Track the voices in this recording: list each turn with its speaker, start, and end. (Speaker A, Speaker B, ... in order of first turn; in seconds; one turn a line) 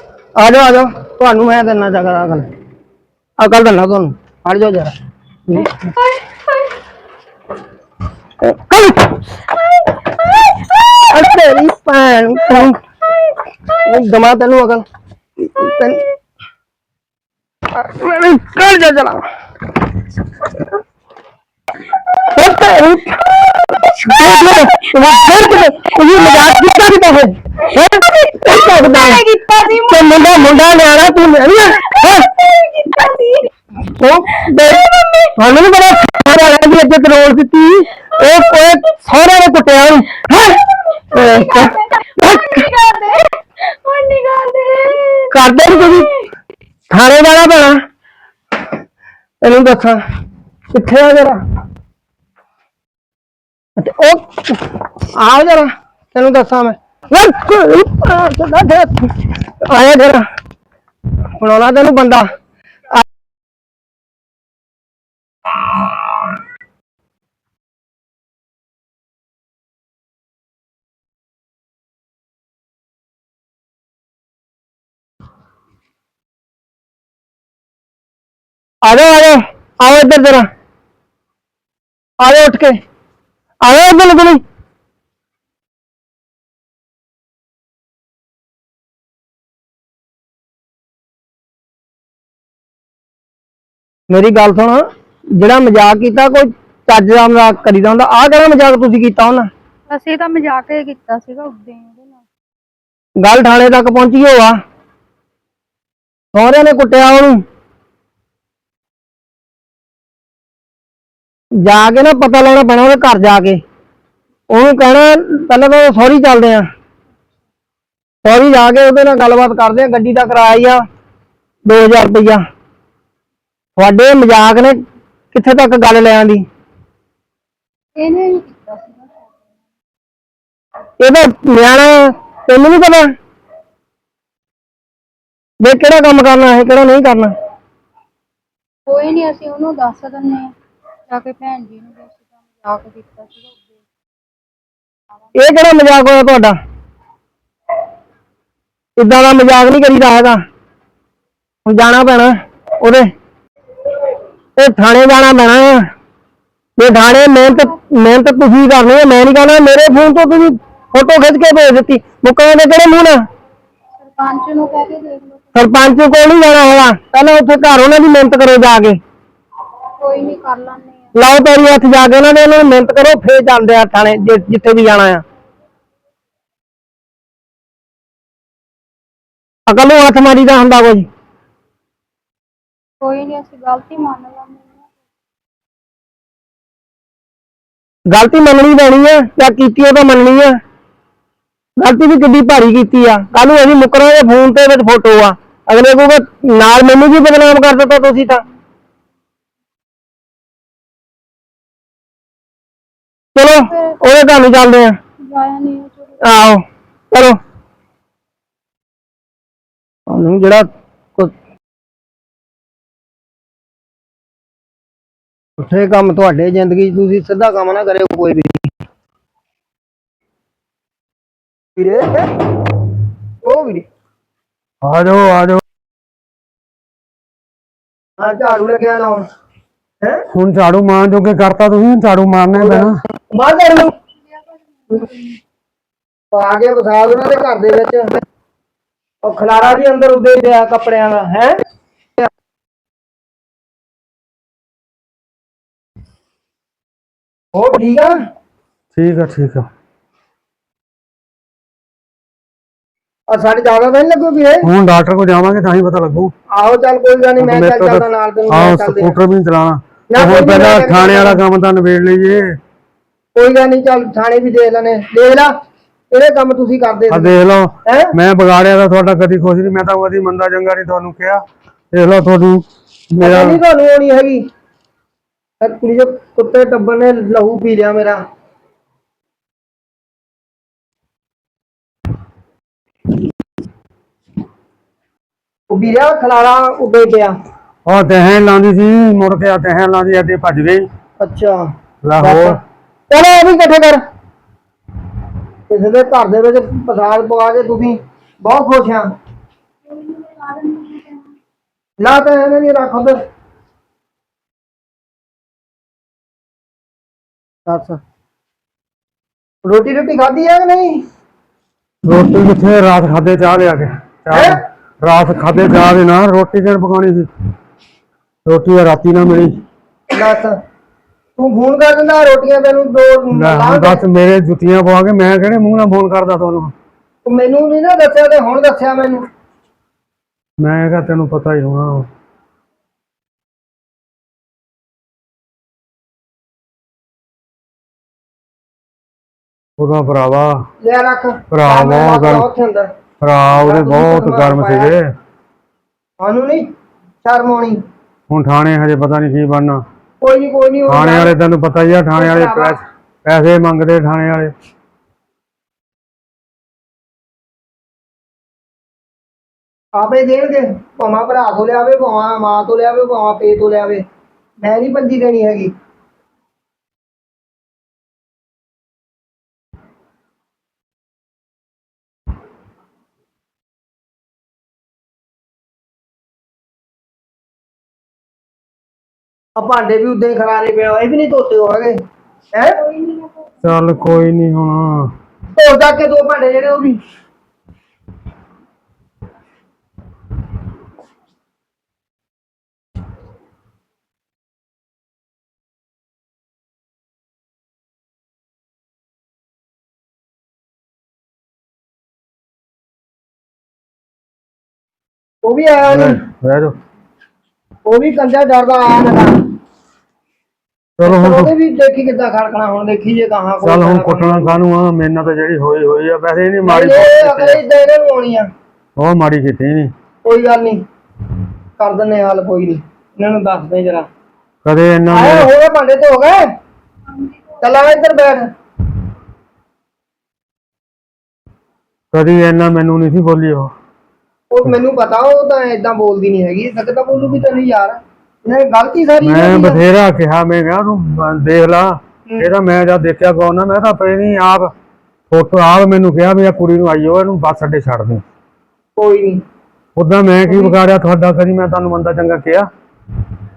Speaker A: 0.3-2.5
Speaker A: 3.4-4.9
Speaker A: 5.5-5.8
Speaker A: 8.4-9.2
Speaker A: 10.9-12.8
Speaker A: 13.7-14.8
Speaker A: 15.4-16.1
Speaker A: 17.7-19.2
Speaker A: 22.3-23.3
Speaker A: 23.9-29.2
Speaker B: 23.9-24.2
Speaker B: 28.1-30.6
Speaker A: 29.9-32.3
Speaker B: 31.9-33.5
Speaker A: 33.9-40.6
Speaker B: 35.0-35.3
Speaker B: 38.3-38.6
Speaker A: 41.1-42.7
Speaker B: 41.1-46.0
Speaker A: 45.3-46.1
Speaker A: 46.9-47.8
Speaker A: 49.4-50.0
Speaker A: 50.7-51.4
Speaker A: 53.8-60.2
Speaker A: 61.4-62.3
Speaker A: 78.8-80.5
Speaker A: 82.2-82.8
Speaker A: 83.6-84.4
Speaker A: 94.1-94.8
Speaker A: 95.3-99.5
Speaker B: 99.9-102.2
Speaker A: 103.2-104.6
Speaker A: 106.3-107.4
Speaker A: 111.6-113.6
Speaker A: 114.5-116.7
Speaker A: 118.2-120.8
Speaker A: 121.6-122.4
Speaker A: 123.8-124.8
Speaker A: 125.3-126.4
Speaker B: 128.0-129.4
Speaker A: 131.0-133.1
Speaker A: 135.6-137.3
Speaker B: 138.9-140.5
Speaker B: 141.1-143.7
Speaker A: 145.3-146.6
Speaker A: 149.0-150.4
Speaker A: 151.6-153.1
Speaker A: 154.6-155.9
Speaker A: 156.8-163.2
Speaker B: 157.4-157.7
Speaker B: 164.0-165.4
Speaker A: 165.5-169.0
Speaker B: 170.0-171.0
Speaker A: 171.1-175.2
Speaker A: 179.7-181.1
Speaker B: 183.0-184.8
Speaker A: 188.1-190.6
Speaker A: 191.8-198.4
Speaker A: 203.3-205.0
Speaker B: 203.7-203.9
Speaker B: 205.2-206.1
Speaker A: 206.2-207.4
Speaker A: 210.1-211.3
Speaker A: 215.6-218.7
Speaker A: 221.8-222.3
Speaker A: 223.4-223.8
Speaker C: 224.8-225.6
Speaker A: 228.2-229.2
Speaker C: 230.3-233.0
Speaker A: 232.5-233.9
Speaker B: 234.9-235.2
Speaker A: 236.3-238.2
Speaker A: 239.2-241.6
Speaker A: 247.5-248.1
Speaker C: 248.9-249.7
Speaker A: 253.3-254.7
Speaker C: 254.6-256.3
Speaker A: 256.5-259.1
Speaker C: 257.4-262.6
Speaker A: 260.1-261.4
Speaker A: 263.3-265.5
Speaker A: 266.1-268.1
Speaker C: 267.1-273.6
Speaker A: 273.2-274.4
Speaker A: 275.6-278.2
Speaker A: 285.7-287.4
Speaker C: 287.8-290.9
Speaker A: 291.2-291.6
Speaker C: 292.0-292.6
Speaker A: 292.2-292.6
Speaker A: 293.1-294.0
Speaker A: 295.7-299.1
Speaker B: 299.9-301.4
Speaker A: 302.0-303.2
Speaker A: 307.7-308.0
Speaker A: 309.6-311.0
Speaker C: 312.1-317.3
Speaker A: 314.3-314.6
Speaker C: 318.4-319.6
Speaker A: 320.1-320.6
Speaker A: 321.4-324.0
Speaker C: 323.3-326.7
Speaker A: 327.2-329.2
Speaker C: 330.6-332.1
Speaker C: 339.8-340.6
Speaker A: 340.8-342.9
Speaker C: 341.5-342.5
Speaker C: 343.2-345.0
Speaker A: 343.5-344.9
Speaker A: 346.2-346.7
Speaker A: 347.2-347.8
Speaker C: 348.3-349.8
Speaker A: 350.2-351.3
Speaker C: 350.9-354.5
Speaker A: 352.1-352.8
Speaker A: 359.9-364.0
Speaker A: 364.6-365.7
Speaker A: 379.6-382.0
Speaker A: 382.5-382.8
Speaker B: 382.8-384.2
Speaker C: 383.6-385.1
Speaker A: 385.5-387.0
Speaker A: 405.4-406.2
Speaker C: 405.9-406.8
Speaker A: 407.8-409.3
Speaker C: 411.0-411.5
Speaker A: 411.0-414.6
Speaker C: 413.6-417.6
Speaker A: 416.6-418.5
Speaker C: 419.0-419.9
Speaker A: 420.2-420.8
Speaker A: 421.8-424.1
Speaker C: 424.6-425.5
Speaker A: 425.1-426.4
Speaker B: 427.1-428.3
Speaker A: 427.6-428.5
Speaker C: 432.1-433.7
Speaker A: 434.5-439.8
Speaker C: 439.2-444.7
Speaker C: 445.3-448.2
Speaker A: 448.9-449.4
Speaker C: 449.9-452.7
Speaker A: 450.5-450.8